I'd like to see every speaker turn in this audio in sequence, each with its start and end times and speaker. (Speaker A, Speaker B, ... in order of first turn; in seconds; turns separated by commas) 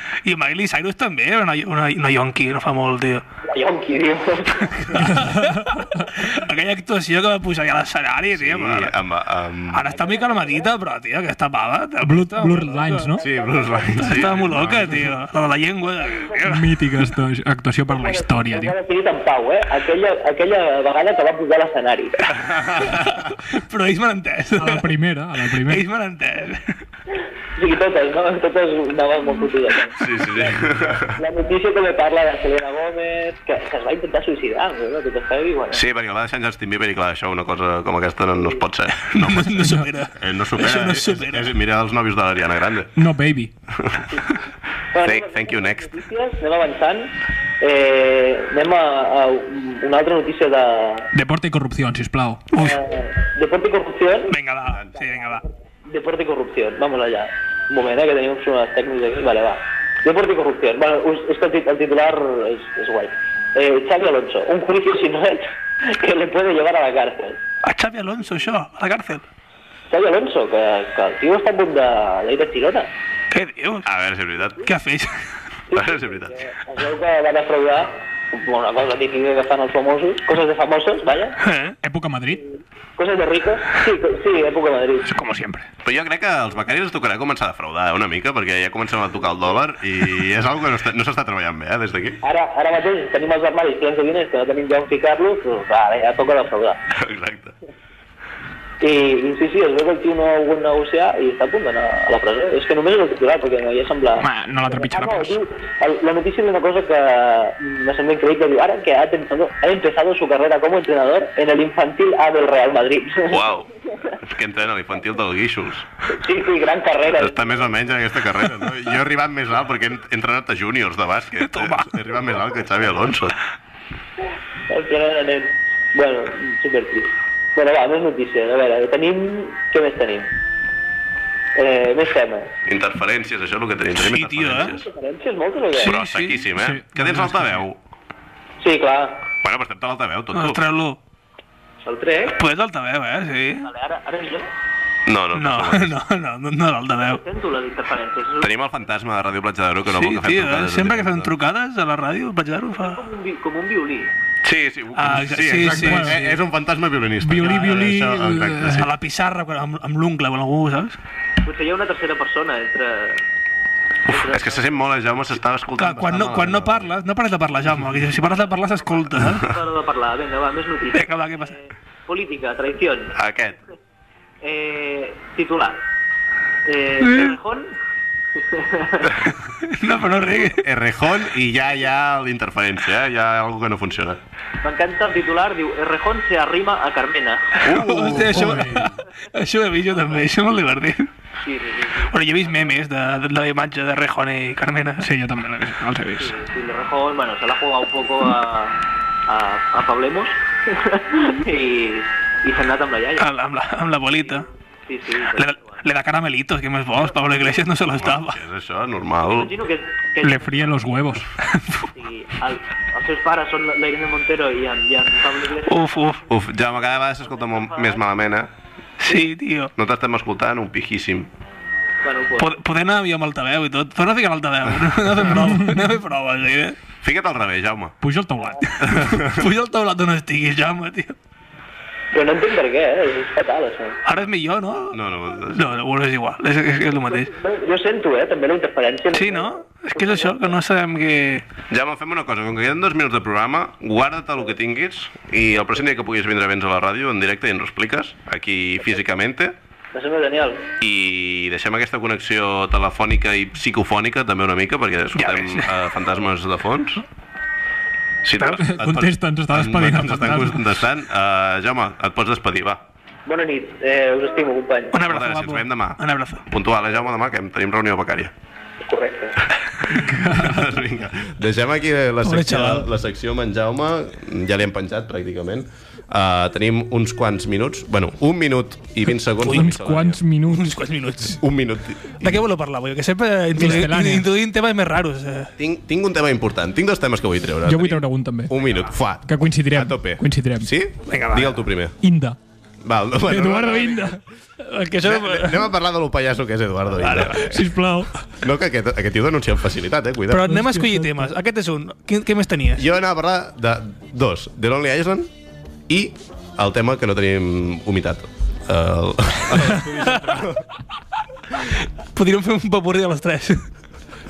Speaker A: 0.2-3.2, Speaker B: 3.5-5.1, Speaker A: 4.9-9.0, Speaker C: 5.0-6.1, Speaker D: 8.3-9.9, Speaker A: 9.7-13.2, Speaker B: 9.8-10.7, Speaker C: 12.0-13.2, Speaker B: 13.2-14.3, Speaker D: 13.2-15.1, Speaker A: 14.0-16.8, Speaker C: 16.4-18.8, Speaker B: 17.9-22.3, Speaker D: 22.6-23.0, Speaker A: 23.0-24.9, Speaker C: 24.6-25.9, Speaker A: 25.7-26.8, Speaker B: 27.6-30.5, Speaker D: 30.0-31.2, Speaker B: 31.1-35.8, Speaker D: 35.7-42.9, Speaker A: 39.0-41.5, Speaker C: 43.0-43.5, Speaker D: 43.8-44.2, Speaker B: 44.9-51.1, Speaker D: 45.0-46.0, Speaker C: 51.1-52.4, Speaker A: 52.5-52.8, Speaker B: 52.6-54.4, Speaker A: 54.3-55.4, Speaker D: 54.6-54.9, Speaker B: 55.1-67.4, Speaker A: 67.6-69.2, Speaker B: 69.9-72.9, Speaker A: 73.3-73.9, Speaker D: 73.8-74.7, Speaker A: 74.6-75.2, Speaker B: 75.7-81.4, Speaker D: 75.7-76.4, Speaker A: 81.4-81.8, Speaker C: 81.8-82.5, Speaker B: 83.0-85.1, Speaker C: 85.1-85.7, Speaker D: 85.8-92.2, Speaker B: 92.2-96.8, Speaker D: 96.9-97.5, Speaker B: 98.8-113.4, Speaker C: 104.2-105.4, Speaker D: 113.3-115.9, Speaker B: 116.1-117.7, Speaker D: 117.1-123.4, Speaker A: 121.4-122.0, Speaker B: 124.7-130.3, Speaker B: 131.6-132.5, Speaker D: 132.7-134.9, Speaker A: 134.0-134.7, Speaker B: 134.7-136.0, Speaker D: 135.7-137.8, Speaker A: 135.8-136.4, Speaker C: 136.6-137.7, Speaker B: 138.6-139.2, Speaker D: 139.4-140.6, Speaker A: 140.3-141.0, Speaker B: 141.8-142.4, Speaker A: 142.3-143.7, Speaker B: 143.6-144.5, Speaker D: 145.1-146.0, Speaker A: 145.3-147.2, Speaker B: 147.0-148.5, Speaker D: 148.4-151.3, Speaker A: 149.9-153.0, Speaker B: 152.8-154.1, Speaker D: 154.4-158.9, Speaker A: 155.0-156.4, Speaker C: 155.7-156.2, Speaker C: 157.2-158.9, Speaker A: 158.8-161.0, Speaker B: 161.4-163.2, Speaker D: 164.1-166.9, Speaker B: 164.1-164.7, Speaker A: 165.8-169.5, Speaker B: 169.3-173.1, Speaker A: 170.9-171.6, Speaker D: 173.1-173.6, Speaker B: 174.4-175.8, Speaker B: 176.7-177.7, Speaker B: 178.4-179.2, Speaker A: 179.6-180.6, Speaker D: 180.4-184.2, Speaker B: 184.6-187.7, Speaker D: 187.6-188.9, Speaker A: 187.6-191.1, Speaker C: 188.3-188.9, Speaker B: 191.4-192.2, Speaker A: 192.1-195.1, Speaker C: 195.0-196.4, Speaker B: 196.2-203.3, Speaker A: 203.2-204.5, Speaker B: 204.2-205.8, Speaker A: 205.3-208.4, Speaker D: 208.0-209.5, Speaker B: 209.2-211.1, Speaker C: 210.2-211.3, Speaker A: 211.5-211.8, Speaker B: 211.9-215.9, Speaker A: 215.7-216.2, Speaker D: 216.3-218.5, Speaker B: 217.2-218.0, Speaker A: 219.0-219.7, Speaker D: 219.8-221.3, Speaker B: 222.0-222.5, Speaker A: 222.4-226.8, Speaker D: 227.0-228.0, Speaker C: 228.0-229.2, Speaker D: 228.8-229.4, Speaker A: 229.2-231.2, Speaker B: 232.1-234.0, Speaker A: 234.1-235.0, Speaker D: 234.9-235.8, Speaker A: 235.5-237.3, Speaker B: 237.1-240.5, Speaker A: 239.1-241.4, Speaker D: 241.7-249.6, Speaker B: 249.9-250.7, Speaker D: 250.8-257.0, Speaker A: 255.2-255.7, Speaker D: 258.2-262.8, Speaker C: 258.6-260.6, Speaker B: 263.3-265.0, Speaker A: 264.9-266.5, Speaker D: 265.0-268.3, Speaker B: 268.9-269.4, Speaker D: 269.9-280.2, Speaker C: 270.2-270.5, Speaker A: 272.2-272.9, Speaker C: 279.5-280.8, Speaker A: 280.5-281.4, Speaker D: 281.4-282.4, Speaker A: 282.2-285.5, Speaker C: 283.6-284.3, Speaker D: 285.6-292.0, Speaker C: 287.7-288.6, Speaker C: 289.2-290.7, Speaker A: 291.1-291.7, Speaker C: 292.0-292.4, Speaker D: 292.8-294.2, Speaker C: 293.3-294.1, Speaker A: 294.6-295.7, Speaker D: 295.0-297.7, Speaker A: 297.0-297.4, Speaker C: 297.3-298.2, Speaker D: 298.4-300.6, Speaker A: 300.3-302.9, Speaker C: 300.5-301.3, Speaker D: 302.8-305.3, Speaker D: 305.9-310.6, Speaker A: 309.9-310.3, Speaker A: 311.7-313.6